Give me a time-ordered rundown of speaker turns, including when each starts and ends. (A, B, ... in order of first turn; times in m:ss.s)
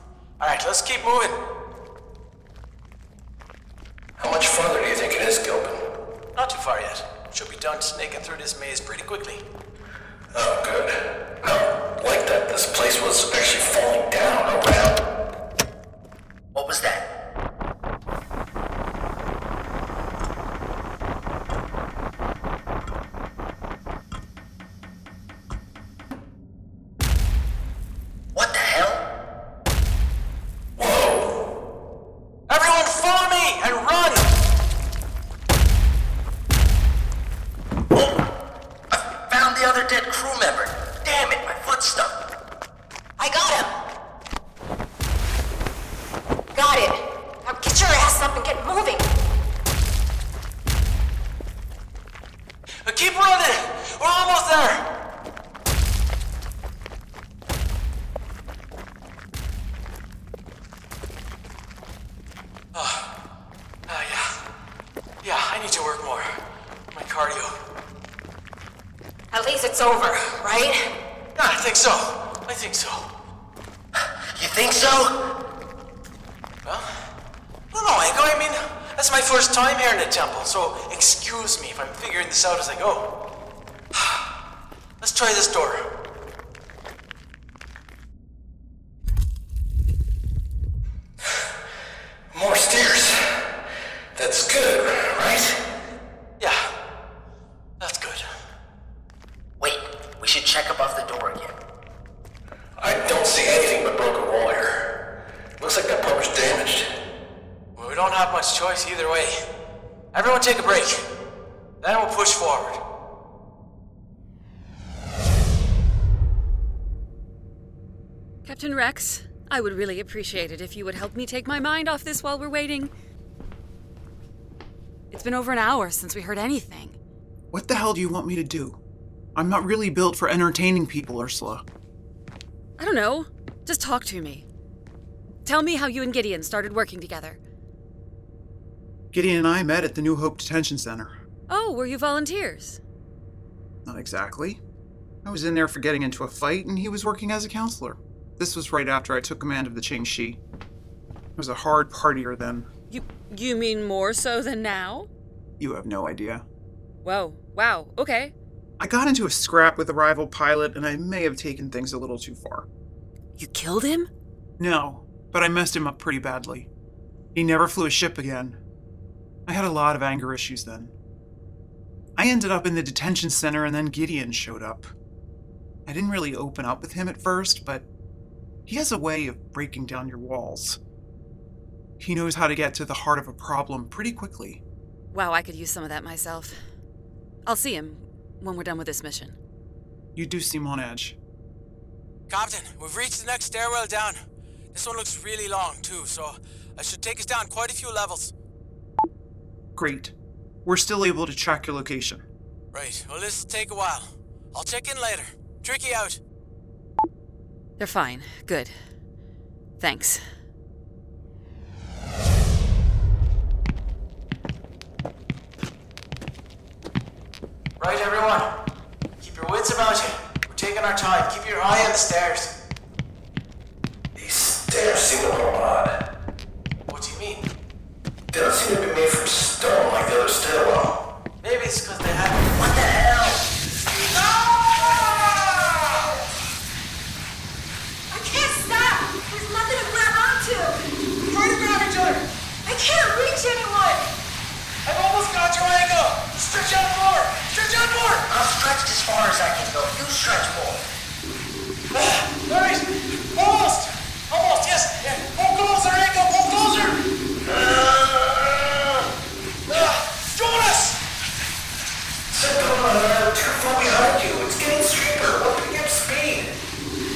0:00.4-0:01.4 A
0:04.2-0:05.8 B
0:06.4-0:09.4 A
0:10.3-0:15.0 B
0:16.5-0:17.1 C
0:28.3-0:29.1 C
0:30.8-0:31.3 B
0:32.5-0:34.3 A
0:38.9-0:42.2 C
0:43.2-0:43.8 D
0:46.5-0:49.1 D
0:52.8-0:54.8 A
1:02.7-1:03.1 A
1:03.9-1:04.3 A
1:05.2-1:06.3 A
1:06.9-1:07.5 A
1:09.3-1:10.8 D
1:11.4-1:13.0 A
1:14.0-1:15.2 C
1:17.7-1:23.1 A
1:25.0-1:25.8 A
1:32.3-1:33.2 B
1:34.1-1:35.6 B
1:37.8-1:38.2 A
1:39.6-1:41.6 C
1:42.8-1:44.9 B
1:45.6-1:46.9 B
1:47.8-1:49.3 A
1:50.1-1:50.9 A
1:51.8-1:52.8 A
1:58.4-2:02.9 E
2:05.1-2:06.9 E
2:07.5-2:08.8 F
2:09.4-2:11.6 F
2:12.8-2:14.4 E
2:15.4-2:17.4 E
2:19.1-2:21.1 F
2:21.5-2:22.8 E
2:23.8-2:24.6 F
2:25.2-2:30.4 F
2:31.4-2:32.7 F
2:32.9-2:35.1 E
2:35.6-2:36.4 F
2:37.0-2:38.3 E
2:38.8-2:42.6 F
2:43.4-2:44.1 E
2:44.6-2:46.7 F
2:47.3-2:48.6 F
2:49.5-2:50.9 F
2:52.2-2:54.9 F
2:55.8-2:57.8 F
2:58.7-3:00.8 F
3:02.0-3:04.6 F
3:05.1-3:06.6 E
3:07.4-3:09.4 E
3:10.1-3:11.2 F
3:12.3-3:14.2 A
3:14.7-3:18.3 A
3:19.8-3:20.1 F
3:20.6-3:22.2 F
3:22.7-3:26.2 A
3:27.8-3:28.7 E
3:29.8-3:30.2 E
3:37.8-3:38.5 A
3:39.2-3:42.5 A
3:44.1-3:46.0 B
3:46.9-3:47.4 A
3:48.3-3:51.0 B
3:51.4-3:52.5 A
3:52.5-3:53.4 C
3:54.1-3:55.8 A
3:54.8-3:56.0 D
3:58.1-4:00.8 D
4:01.3-4:02.2 A
4:02.6-4:04.0 D
4:04.8-4:08.2 A
4:08.3-4:10.8 C
4:11.9-4:17.0 A
4:17.6-4:18.2 A
4:19.7-4:21.0 A
4:22.3-4:26.6 B